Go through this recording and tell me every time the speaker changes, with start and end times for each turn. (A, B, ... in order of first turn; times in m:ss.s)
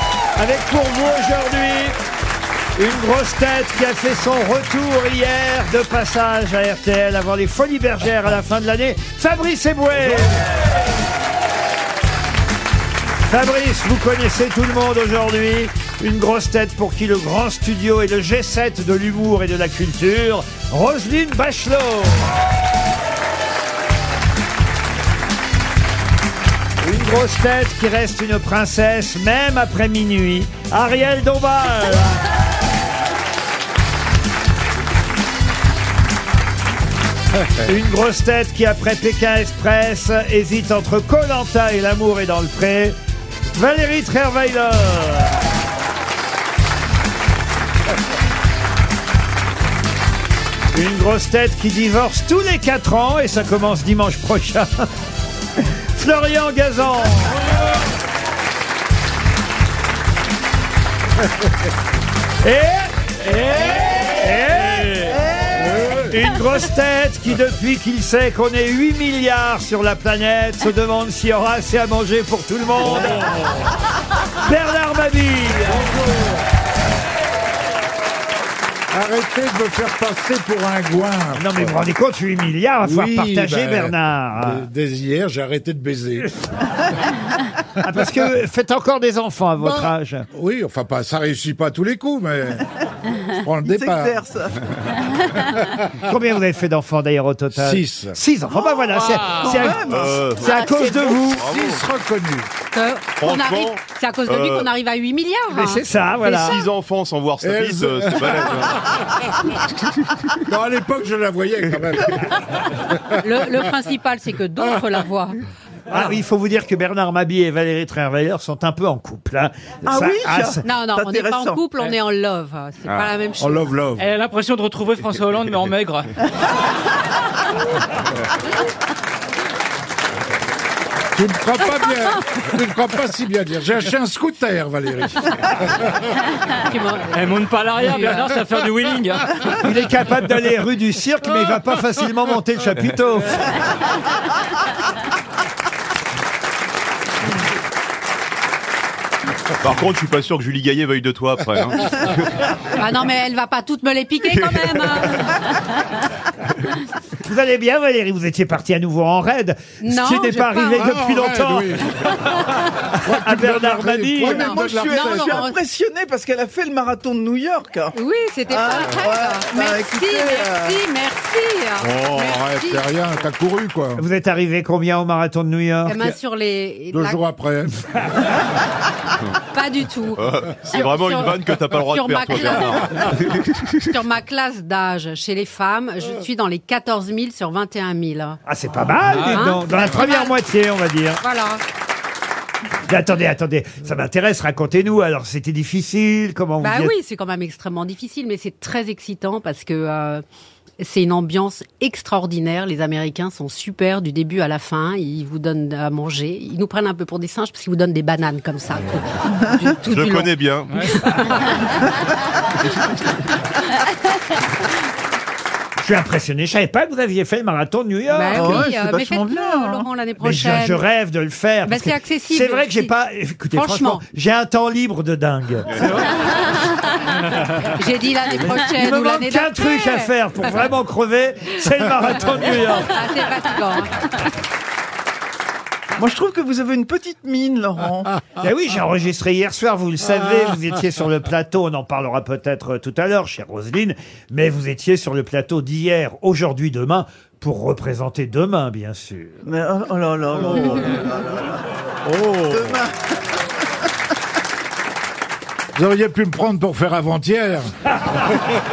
0:00.4-0:02.0 A
0:02.8-0:10.5 A
0:13.3-0:22.4 A
0:26.8-0:32.1 A
0:37.6-0:43.0 A
0:43.5-0:45.4 A
0:50.7-0:54.9 A
0:55.6-0:57.5 A
1:02.4-1:05.2 A
1:04.8-1:05.2 B
1:05.5-1:06.1 C
1:06.0-1:13.6 A
1:14.3-1:15.9 A
1:15.7-1:16.4 C
1:18.9-1:21.8 C
1:21.4-1:24.6 A
1:22.8-1:26.3 C
1:27.8-1:30.2 A
1:30.3-1:32.7 C
1:33.2-1:34.2 C
1:33.6-1:34.6 D
1:35.9-1:41.5 A
1:37.5-1:38.2 C
1:39.3-1:41.2 D
1:39.7-1:41.8 E
1:41.4-1:42.5 C
1:42.7-1:45.8 F
1:43.2-1:44.7 E
1:45.5-1:46.6 A
1:46.2-1:48.8 E
1:47.4-1:48.5 C
1:50.3-1:52.8 C
1:53.2-1:55.4 F
1:55.9-2:00.6 A
1:59.8-2:01.6 D
2:00.6-2:03.7 F
2:03.4-2:04.0 C
2:04.0-2:06.1 B
2:11.1-2:16.0 C
2:16.6-2:18.2 F
2:17.1-2:19.6 B
2:19.6-2:23.6 A
2:29.6-2:32.4 E
2:32.7-2:35.5 F
2:34.3-2:35.3 E
2:37.2-2:44.4 A
2:39.8-2:40.9 F
2:40.7-2:42.1 C
2:43.0-2:45.4 C
2:44.2-2:45.6 F
2:44.4-2:48.0 D
2:47.9-2:52.9 F
2:48.5-2:50.8 D
2:51.8-2:54.0 C
2:54.0-2:56.0 A
2:55.8-2:57.2 F
2:56.9-2:57.8 C
2:59.5-3:08.4 F
3:00.2-3:03.4 E
3:08.4-3:11.2 A
3:09.1-3:09.5 B
3:09.2-3:10.4 F
3:11.2-3:11.6 F
3:12.8-3:16.9 A
3:16.6-3:20.2 F
3:20.8-3:30.3 F
3:29.8-3:31.6 E
3:31.0-3:31.6 F
3:35.8-3:38.6 A
3:38.1-3:40.8 F
3:38.3-3:39.9 D
3:40.2-3:46.4 A
3:41.6-3:42.9 F
3:43.5-3:44.0 F
3:47.6-3:50.1 F
3:48.7-3:53.0 A
3:52.8-3:54.2 F
3:56.0-3:58.3 D
3:58.3-4:09.4 A
4:09.4-4:12.9 D
4:15.7-4:17.7 C